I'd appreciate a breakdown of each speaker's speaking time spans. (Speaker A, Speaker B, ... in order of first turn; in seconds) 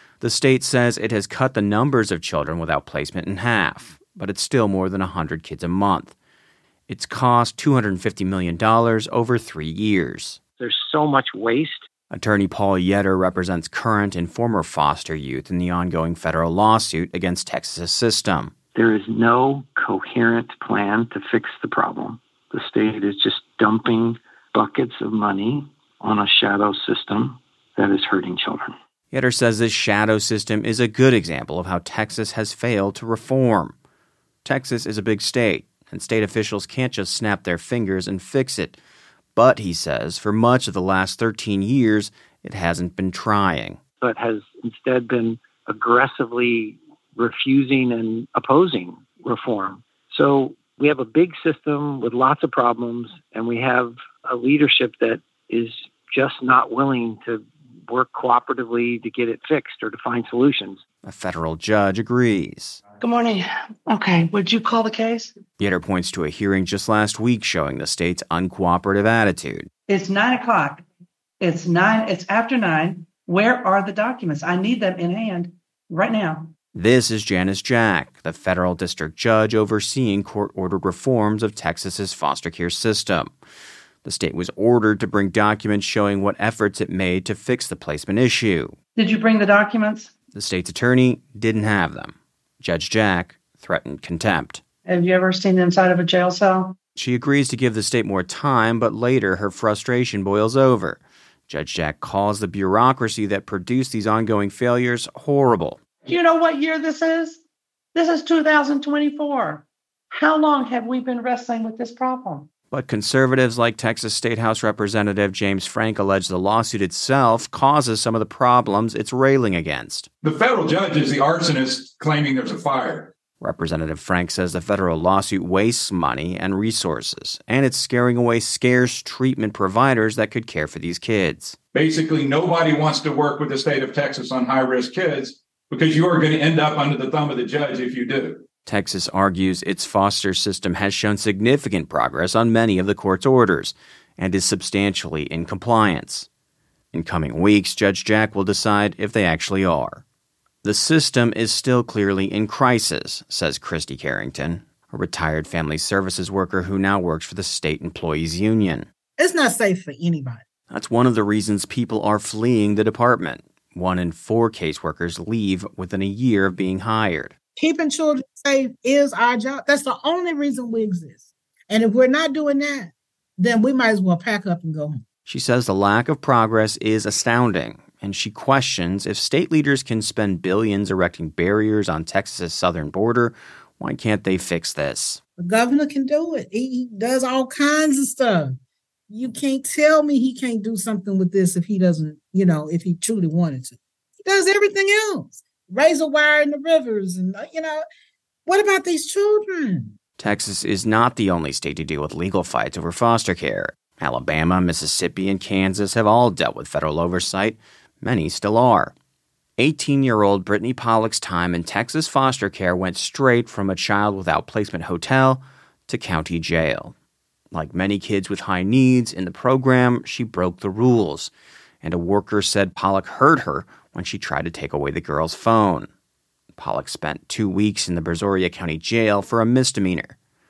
Speaker A: 0.2-6.2, 6.9-10.4, 12.1-18.5, 29.1-33.8, 34.5-38.8, 39.4-43.8, 61.0-62.8, 65.6-69.7, 76.7-83.3, 84.0-88.8, 90.3-94.6, 97.0-105.8, 112.7-120.1, 123.4-131.6, 138.7-146.3, 146.9-150.0, 150.6-158.9, 160.7-167.3, 175.3-185.2, 200.2-208.9, 209.6-216.9, 217.5-225.9, 226.6-230.2
Speaker B: 10.6-11.8, 18.8-28.7, 44.0-60.8
Speaker C: 63.0-65.3, 69.9-70.8, 71.4-76.5, 89.0-90.1, 94.9-96.8, 106.1-107.4, 108.0-112.5
Speaker D: 120.2-123.1, 131.8-138.4
Speaker E: 159.2-160.4, 167.6-175.0, 185.4-188.6, 189.1-197.8, 198.5-199.9